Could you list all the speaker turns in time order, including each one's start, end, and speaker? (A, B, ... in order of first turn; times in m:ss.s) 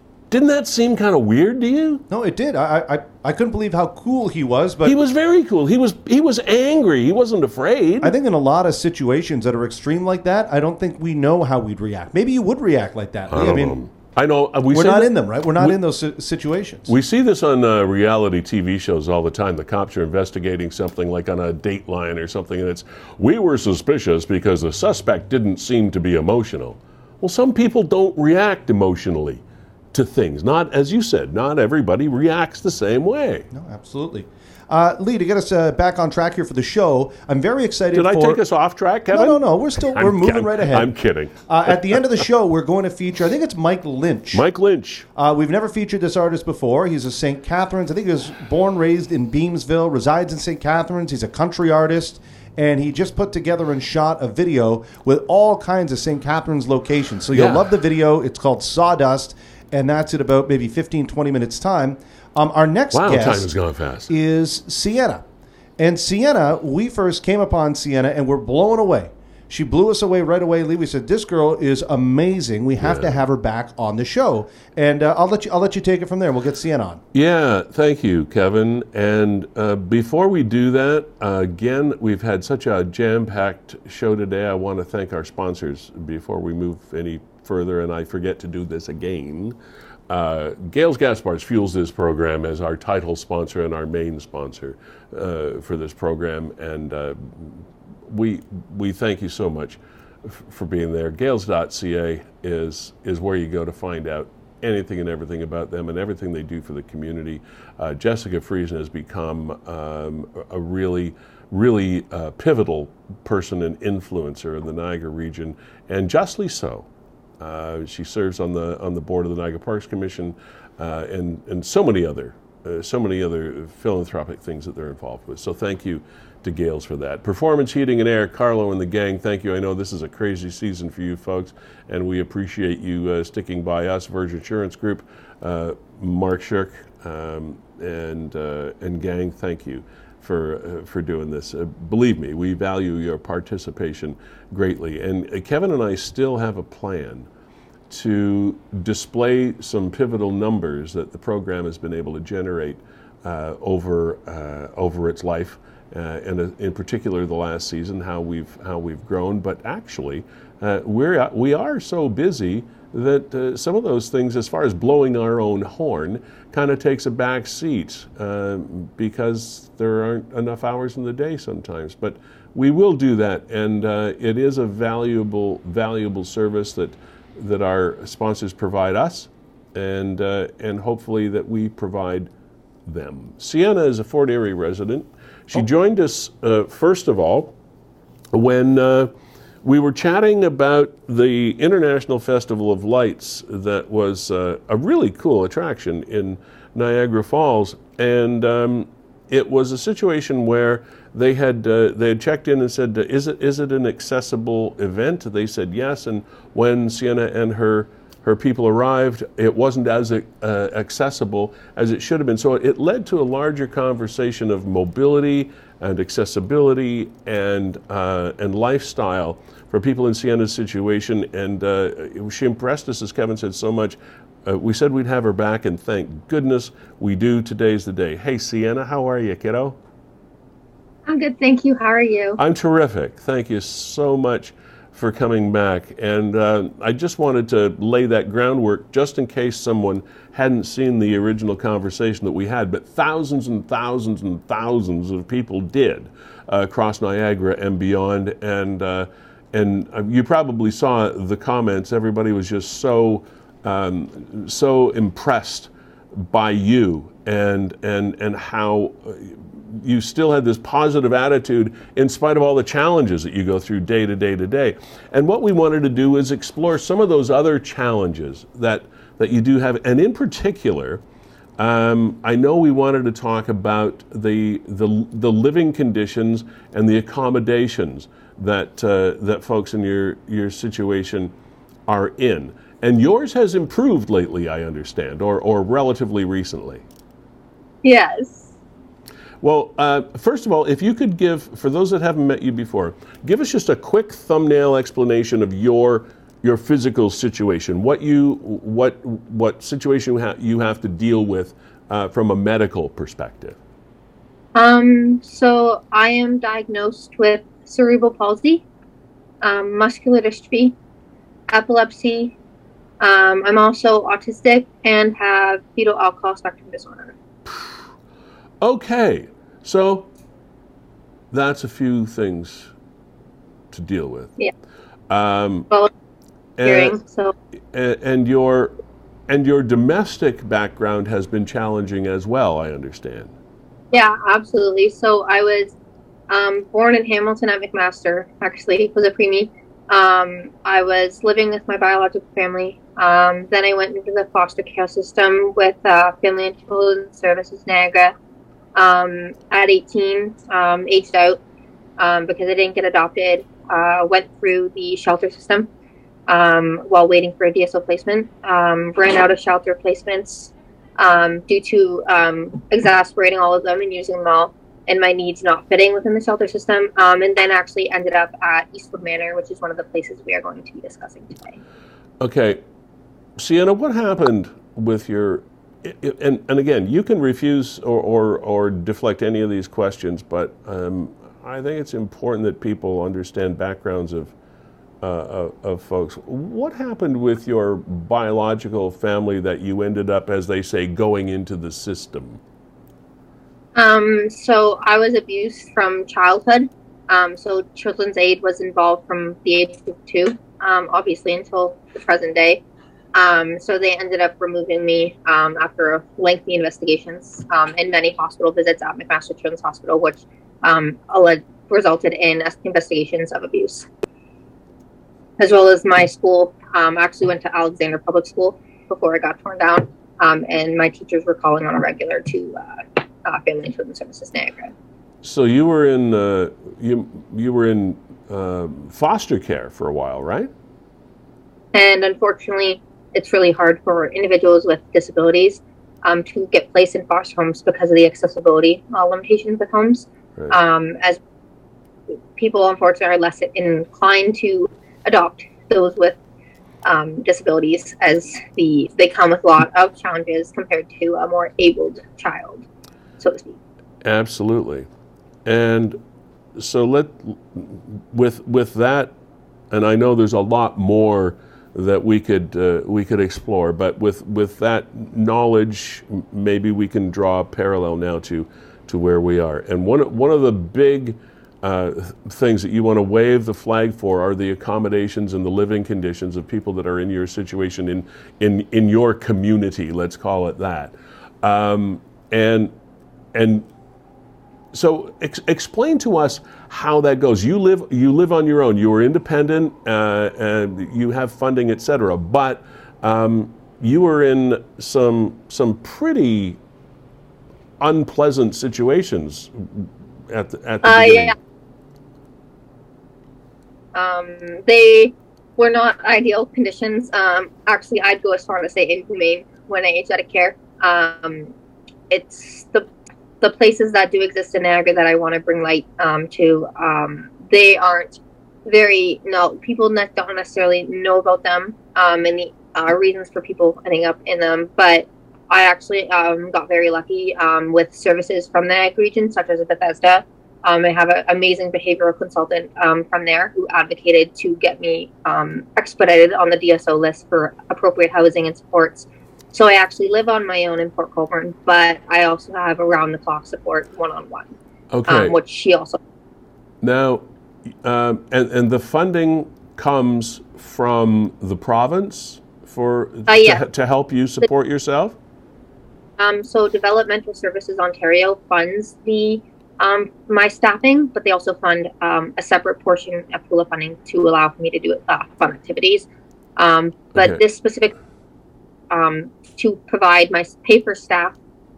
0:00.3-0:02.0 A
0:02.1-0:05.0 B
0:04.8-0:08.2 A
0:08.0-0:13.8 B
0:13.3-0:15.8 A
0:14.7-0:16.9 B
0:16.9-0:29.4 A
0:29.9-0:33.5 A
0:33.5-0:38.4 B
0:37.9-0:41.9 A
0:39.1-0:44.4 B
0:44.3-0:45.1 A
0:45.2-1:03.5 B
0:57.3-0:57.7 A
1:02.9-1:04.1 A
1:04.1-1:05.3 B
1:05.8-1:17.0 B
1:12.8-1:13.2 A
1:17.1-1:29.6 A
1:30.1-1:56.9 A
1:57.4-2:27.3 A
2:27.9-3:02.3 A
3:02.9-3:07.5 A
3:08.3-3:09.1 A
3:09.6-3:49.8 A
3:51.1-3:52.4 C
3:52.4-4:31.0 A
4:31.6-4:41.3 A
4:41.9-4:46.8 A
4:47.8-4:48.5 C
4:49.4-5:03.6 A
5:04.6-5:08.6 C
5:09.4-5:10.8 C
5:11.5-5:12.4 C
5:13.0-5:17.2 C
5:17.5-5:17.9 A
5:18.6-5:20.1 A
5:21.3-5:22.7 A
5:23.7-5:24.3 A
5:25.1-5:25.7 A
5:26.6-5:27.0 A
5:26.6-5:27.4 C
5:27.7-5:28.8 A
5:29.3-5:33.3 A
5:33.9-5:35.7 C
5:36.3-5:48.2 C
5:48.8-5:51.4 C
5:52.0-5:55.7 C
5:56.3-6:11.6 C
6:12.2-6:12.6 A
6:13.4-6:24.3 A
6:25.0-6:32.4 A
6:33.8-6:42.6 C
6:43.1-6:53.9 C
6:55.4-7:04.7 C
7:05.2-7:10.5 A
7:11.7-7:21.2 C
7:22.4-7:26.2 C
7:26.8-7:32.6 C
7:33.2-7:33.6 C
7:34.0-7:34.9 A
7:35.5-7:36.0 A
7:36.6-7:39.2 A
7:39.7-8:02.7 A
8:03.3-8:03.7 A
8:04.7-8:16.6 A
8:17.8-8:21.4 A
8:20.8-8:21.4 C
8:23.9-8:31.5 C
8:32.1-8:32.9 C
8:33.4-9:04.6 C
9:04.9-9:05.4 A
9:05.1-9:06.0 C
9:06.8-9:15.2 A
9:13.3-9:13.6 C
9:16.2-9:28.0 C
9:27.2-9:27.4 A
9:28.9-9:31.4 C